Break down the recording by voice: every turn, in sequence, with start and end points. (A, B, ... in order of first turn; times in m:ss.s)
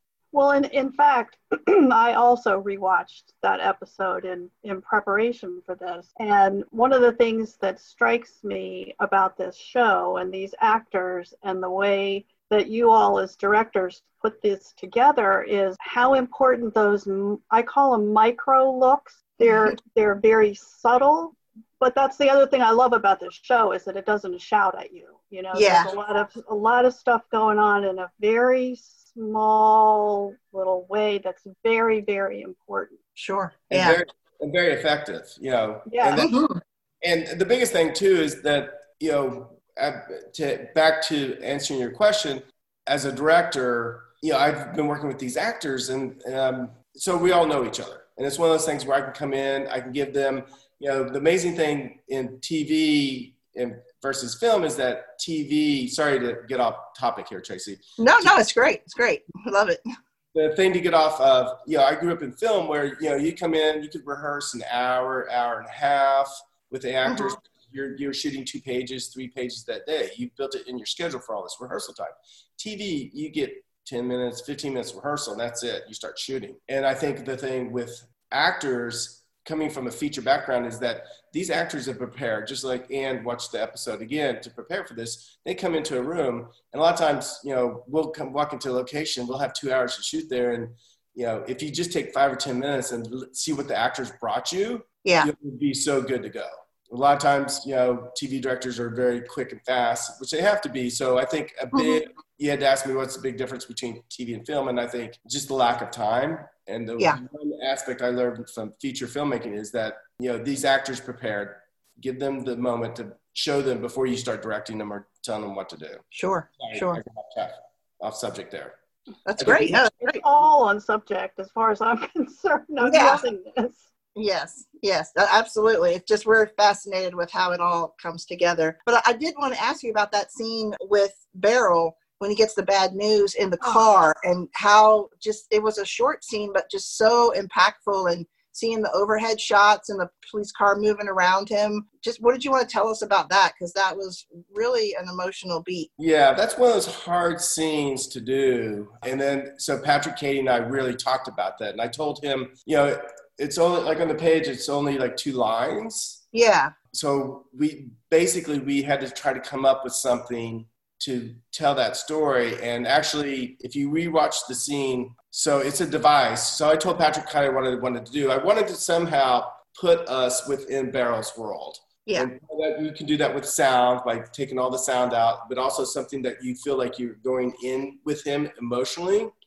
0:00.3-0:33.0 A
0:19.4-0:19.7 B
0:25.5-0:25.9 B
0:33.2-0:34.0 B
0:33.7-0:36.4 C
0:35.9-0:36.3 A
0:36.2-0:36.6 B
0:37.0-0:58.3 C
0:58.0-0:59.8 B
1:00.3-1:56.0 C
1:07.0-1:07.4 B
1:35.0-1:35.3 B
1:56.1-1:57.0 B
1:56.6-1:58.8 C
1:59.3-2:00.2 B
1:59.4-1:59.8 C
2:00.0-2:03.8 A
2:02.8-2:03.2 B
2:04.1-2:25.9 B
2:26.0-2:36.2 C
2:36.3-2:36.7 B
2:36.9-2:59.3 C